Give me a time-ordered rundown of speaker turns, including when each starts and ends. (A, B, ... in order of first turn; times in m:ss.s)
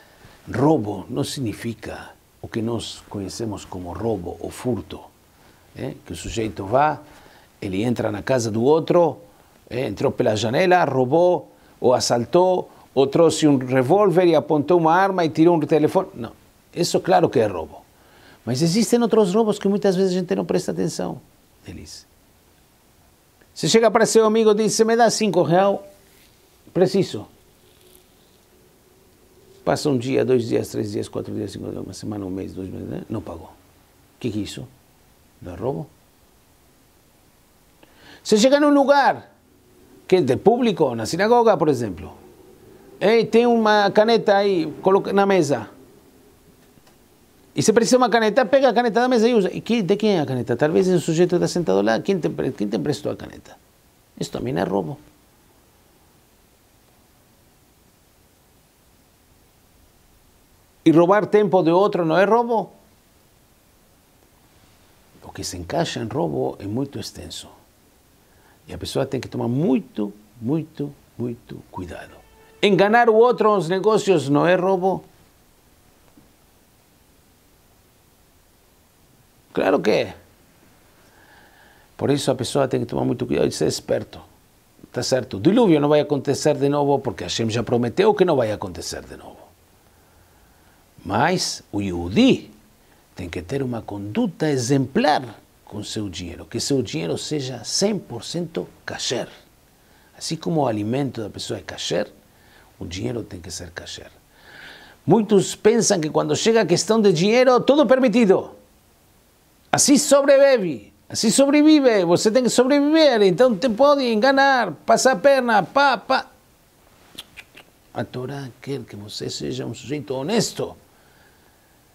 0:00.5-0:05.1 A
0:05.7-0:07.0 A
0:07.6-0:17.8 A
0:18.4-0:22.1 A
0:23.5-0:25.8 A
0:26.7-0:27.3 A
0:29.6-0:33.5 A
0:34.2-0:34.7 A
0:35.4-0:35.9 A
0:38.2-0:39.3 A
0:40.1-0:42.2 A
0:43.0-0:45.7 A
0:47.5-0:53.6 A
0:54.2-0:55.0 A
1:00.8-1:02.7 A
1:05.2-1:07.5 A
1:08.6-1:15.0 A
1:19.5-1:20.2 A
1:22.0-1:24.2 A
1:24.9-1:29.5 A
1:31.0-1:32.5 A
1:33.1-1:39.3 A
1:40.1-1:42.1 A
1:42.8-1:44.2 A
1:45.0-1:48.6 A
1:49.7-1:56.2 A
1:57.9-2:00.8 A